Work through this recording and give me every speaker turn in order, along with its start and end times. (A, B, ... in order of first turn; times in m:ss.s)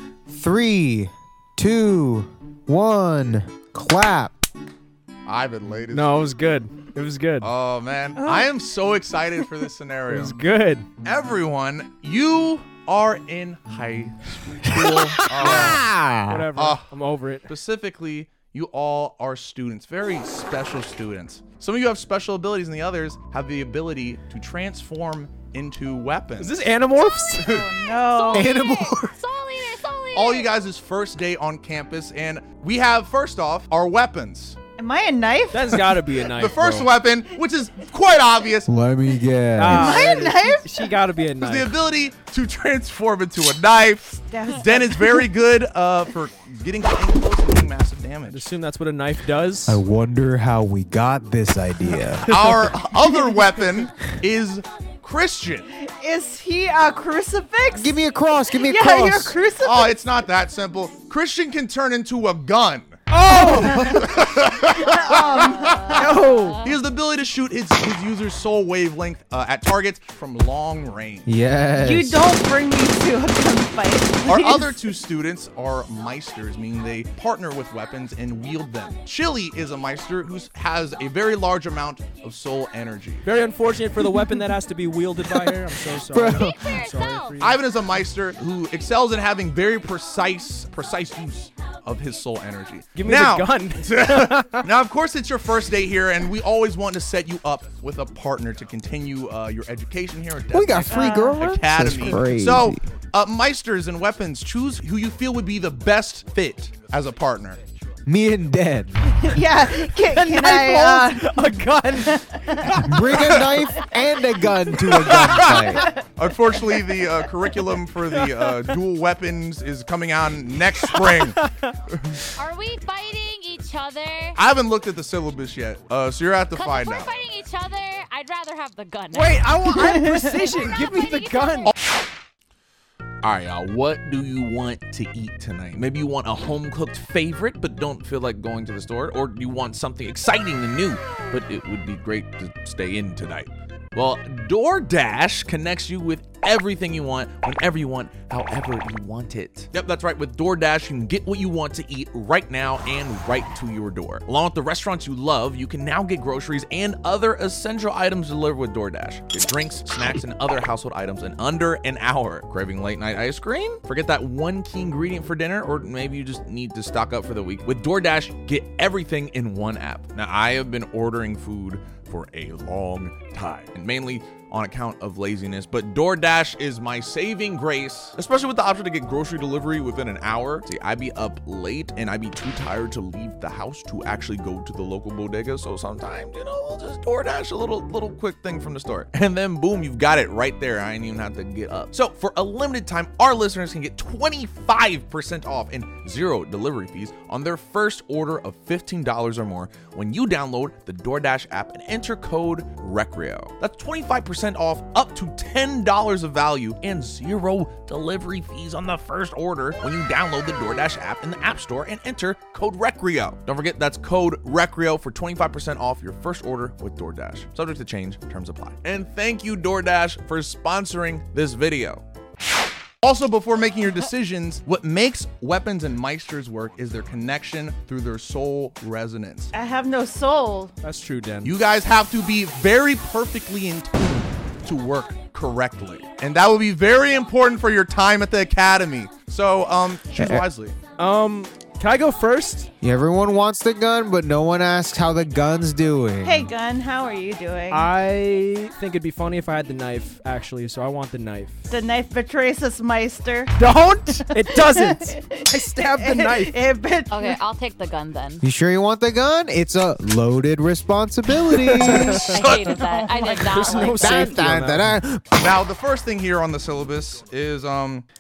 0:00.3-0:04.4 A
0:05.3-0:06.2 B
0:05.9-0:07.5 C
0:07.4-0:10.4 B
0:08.2-0:08.5 D
0:10.1-0:10.9 C
0:11.0-0:15.9 B
0:14.7-0:16.5 A
0:16.3-0:17.5 C
0:16.5-0:16.9 B
0:17.5-0:26.6 B
0:26.4-0:27.5 C
0:27.4-0:28.5 D
0:27.4-0:27.7 B
0:28.1-0:30.5 E
0:28.3-0:29.2 A
0:30.1-0:34.6 B
0:34.8-0:35.6 D
0:35.5-0:36.9 C
0:35.7-0:38.7 B
0:38.7-0:40.0 A
0:39.6-0:41.8 C
0:39.7-0:40.9 D
0:41.4-0:48.4 B
0:44.1-0:45.3 D
0:48.3-0:49.8 C
0:49.7-0:52.3 A
0:52.3-0:55.7 B
0:52.3-0:52.7 C
0:55.8-0:58.0 D
0:57.8-0:59.4 A
0:58.5-1:00.0 D
0:59.6-1:03.0 B
1:03.1-1:04.1 C
1:03.3-1:04.1 D
1:03.6-1:11.3 B
1:04.7-1:06.1 D
1:05.4-1:06.8 E
1:05.9-1:06.7 C
1:11.3-1:12.3 A
1:11.8-1:14.8 D
1:14.3-1:23.3 B
1:23.2-1:27.6 C
1:24.0-1:24.4 A
1:25.3-1:26.6 A
1:26.2-1:27.4 E
1:27.4-1:47.6 B
1:33.0-1:34.7 C
1:40.5-1:42.8 A
1:40.8-1:41.5 D
1:48.1-1:49.1 A
1:49.2-1:51.3 D
1:50.0-1:53.0 C
1:51.9-1:52.8 D
1:52.8-1:55.9 A
1:53.2-1:53.5 B
1:54.8-2:02.2 B
1:58.2-1:58.6 C
2:00.8-2:01.7 C
2:02.4-2:04.4 E
2:04.4-2:07.1 B
2:06.5-2:09.7 E
2:09.1-2:11.7 C
2:09.8-2:10.6 D
2:10.6-2:11.7 E
2:13.2-3:42.0 B
3:43.0-3:49.5 B
3:49.5-3:50.7 D
3:50.8-3:51.6 C
3:51.4-4:00.8 B
4:00.2-4:00.4 A
4:01.0-4:02.7 C
4:02.8-4:06.5 A
4:06.2-4:07.9 D
4:07.7-4:11.6 C
4:11.7-4:13.6 D
4:13.6-4:16.6 C
4:14.4-4:17.4 D
4:17.1-4:18.4 E
4:18.4-4:22.5 A
4:21.8-4:22.3 C
4:22.3-4:24.4 E
4:22.3-4:22.8 B
4:23.5-4:25.0 C
4:23.6-4:25.5 A
4:25.4-4:28.0 B